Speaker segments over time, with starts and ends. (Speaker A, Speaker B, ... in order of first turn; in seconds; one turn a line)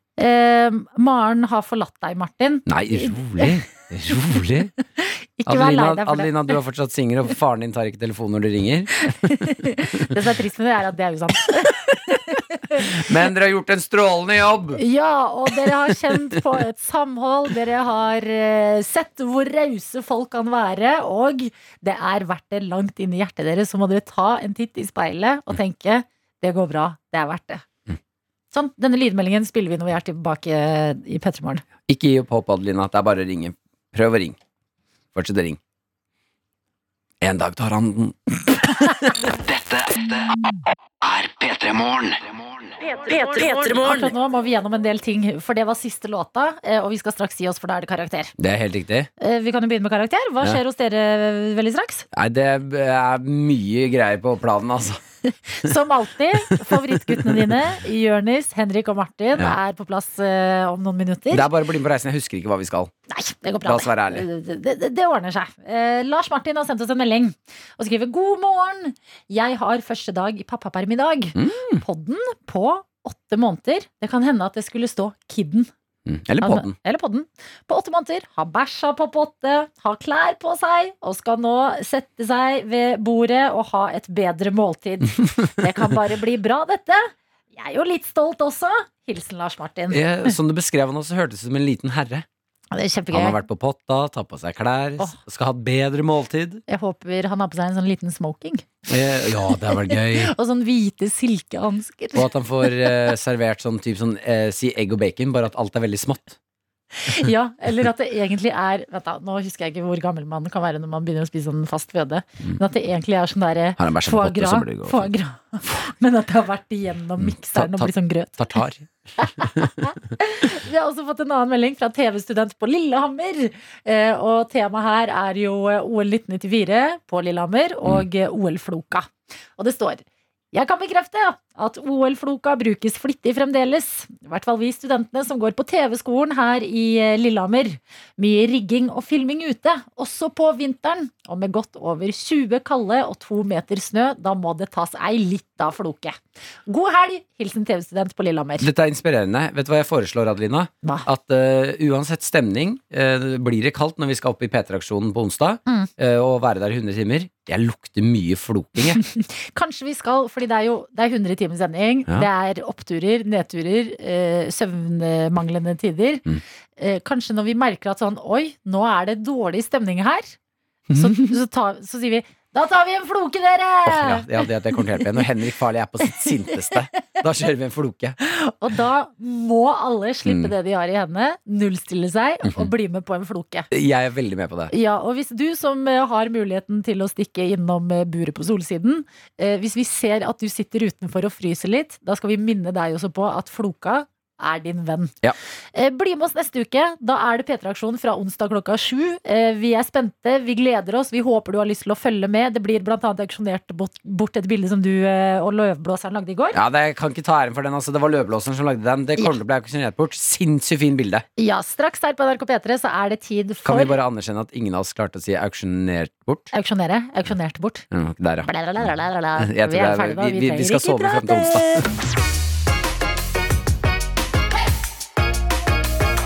Speaker A: 0.2-3.5
Speaker B: 2.6-4.7
Speaker A: 5.0-6.5
Speaker B: 5.5-9.5
Speaker A: 9.1-13.0
Speaker B: 12.8-14.8
Speaker A: 14.8-27.6
Speaker B: 15.6-16.4
Speaker A: 28.5-31.6
Speaker B: 31.9-34.4
Speaker B: 35.1-35.6
Speaker B: 37.2-39.1
Speaker C: 39.4-40.3
Speaker C: 41.0-42.4
Speaker A: 42.8-48.3
Speaker C: 43.1-44.1
Speaker B: 48.4-49.1
Speaker A: 49.2-52.0
Speaker B: 52.1-55.0
Speaker A: 55.5-61.5
Speaker B: 56.5-57.5
Speaker B: 61.3-62.9
Speaker A: 63.1-75.7
Speaker B: 63.6-64.3
Speaker B: 71.3-71.8
Speaker B: 76.0-76.7
Speaker A: 76.4-90.3
Speaker B: 89.9-92.3
Speaker A: 92.7-93.4
Speaker B: 93.1-96.6
Speaker A: 96.7-103.0
Speaker B: 98.9-100.3
Speaker B: 102.1-106.4
Speaker A: 107.0-118.5
Speaker B: 113.8-115.1
Speaker B: 117.2-119.8
Speaker A: 119.2-148.7
Speaker B: 148.6-159.0
Speaker A: 159.0-166.2
Speaker A: 166.8-170.3
Speaker B: 170.9-171.3
Speaker A: 170.9-174.4
Speaker B: 173.8-178.2
Speaker A: 178.2-183.7
Speaker B: 180.2-180.5
Speaker B: 183.7-184.7
Speaker A: 184.7-195.2
Speaker A: 195.7-206.6
Speaker B: 206.5-211.2
Speaker A: 211.4-213.9
Speaker B: 213.6-216.5
Speaker A: 216.5-217.8
Speaker B: 217.9-218.5
Speaker A: 218.4-221.8
Speaker B: 219.4-221.8